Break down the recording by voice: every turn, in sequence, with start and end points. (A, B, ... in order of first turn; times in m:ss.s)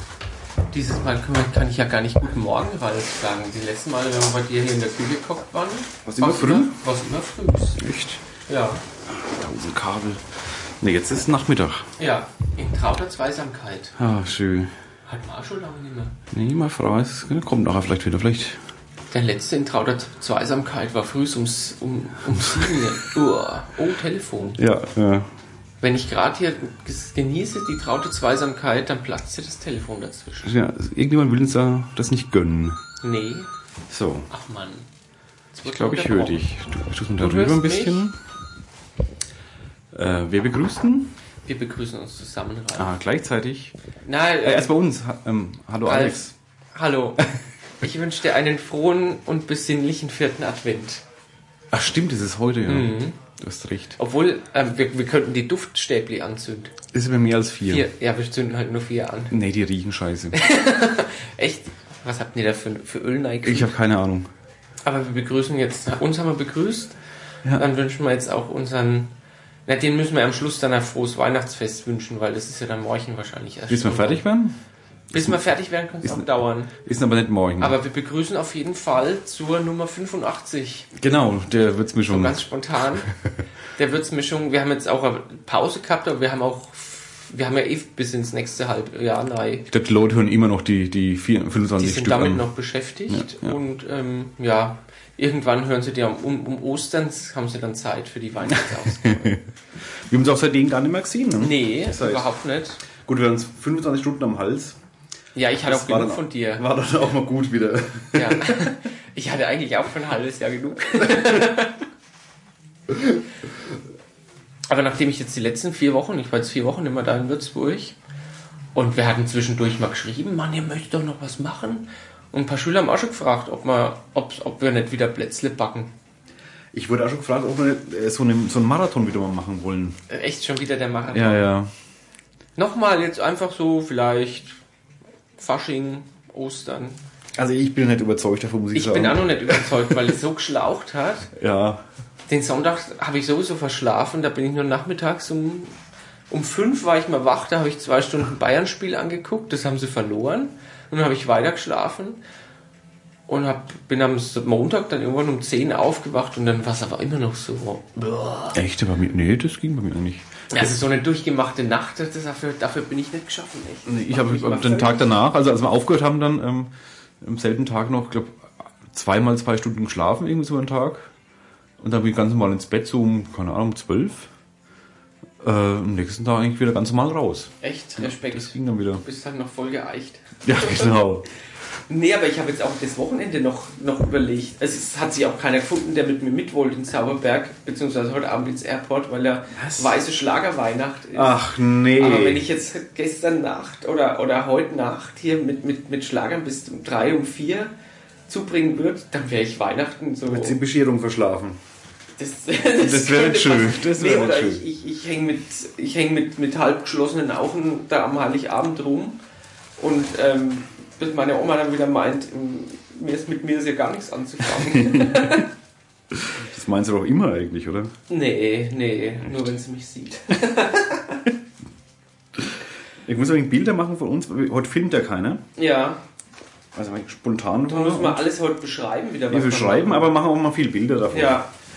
0:00.7-0:07.8 A
0:06.0-0:06.8 B
0:07.8-0:08.2 B
0:08.5-0:08.8 A
0:09.1-0:11.9 B
0:12.0-0:14.0 A
0:14.0-0:14.7 B
0:15.1-0:16.2 A
0:16.3-0:18.6 B
0:19.1-0:24.6 A
0:24.6-0:25.3 B
0:25.8-0:30.6 A
0:30.4-0:32.8 B
0:33.0-0:33.5 A
0:33.9-0:34.3 B
0:34.3-0:34.9 A
0:35.5-0:36.4 A
0:35.6-0:38.2 B
0:37.2-0:38.1 A
0:39.9-0:41.2 B
0:41.5-0:42.9 A
0:42.8-0:43.8 B
0:44.0-0:44.8 A
0:44.4-0:46.3 B
0:45.8-0:47.3 A
0:47.8-0:51.0 A
0:51.7-0:54.0 B
0:52.7-0:53.2 A
0:54.0-0:56.8 A
0:56.9-0:57.9 B
0:57.7-0:59.4 A
0:59.3-1:00.4 B
1:00.3-1:03.8 A
1:03.4-1:04.3 B
1:04.8-1:07.0 A
1:07.6-1:09.1 A
1:09.7-1:14.2 A
1:13.7-1:14.6 B
1:15.1-1:16.7 A
1:15.1-1:15.4 B
1:16.0-1:17.8 B
1:17.6-1:20.9 A
1:20.9-1:22.5 B
1:22.1-1:23.1 A
1:23.8-1:29.7 A
1:29.7-1:32.5 B
1:31.8-1:39.3 A
1:33.1-1:33.6 B
1:38.5-1:39.4 B
1:40.1-1:42.3 B
1:41.4-1:42.8 A
1:43.0-1:44.8 B
1:45.4-1:46.7 A
1:45.6-1:48.7 B
1:48.2-1:51.8 A
1:54.7-1:58.0 A
1:58.8-2:05.9 A
2:06.7-2:10.0 B
2:10.1-2:11.5 A
2:11.1-2:11.7 B
2:12.6-2:14.6 A
2:15.4-2:17.0 A
2:17.4-2:20.1 B
2:18.7-2:21.3 A
2:21.4-2:21.8 B
2:22.3-2:25.8 A
2:26.3-2:32.2 A
2:33.3-2:38.6 A
2:38.5-2:40.7 B
2:40.5-2:45.1 A
2:43.9-2:51.1 B
2:51.8-2:54.3 B
2:55.4-2:59.0 B
2:57.6-3:01.0 A
3:00.4-3:01.3 B
3:01.9-3:11.4 A
3:09.5-3:10.0 B
3:11.1-3:12.4 B
3:12.0-3:17.7 A
3:18.3-3:20.6 A
3:20.2-3:21.6 B
3:22.2-3:29.2 A
3:22.8-3:24.6 B
3:29.8-3:35.5 A
3:34.7-3:35.4 B
3:36.1-3:37.9 B
3:38.1-3:41.2 A
3:42.4-3:45.4 B
3:45.6-3:46.0 A
3:46.8-3:48.2 B
3:47.7-3:50.1 A
3:49.3-3:51.4 B
3:51.1-3:51.5 A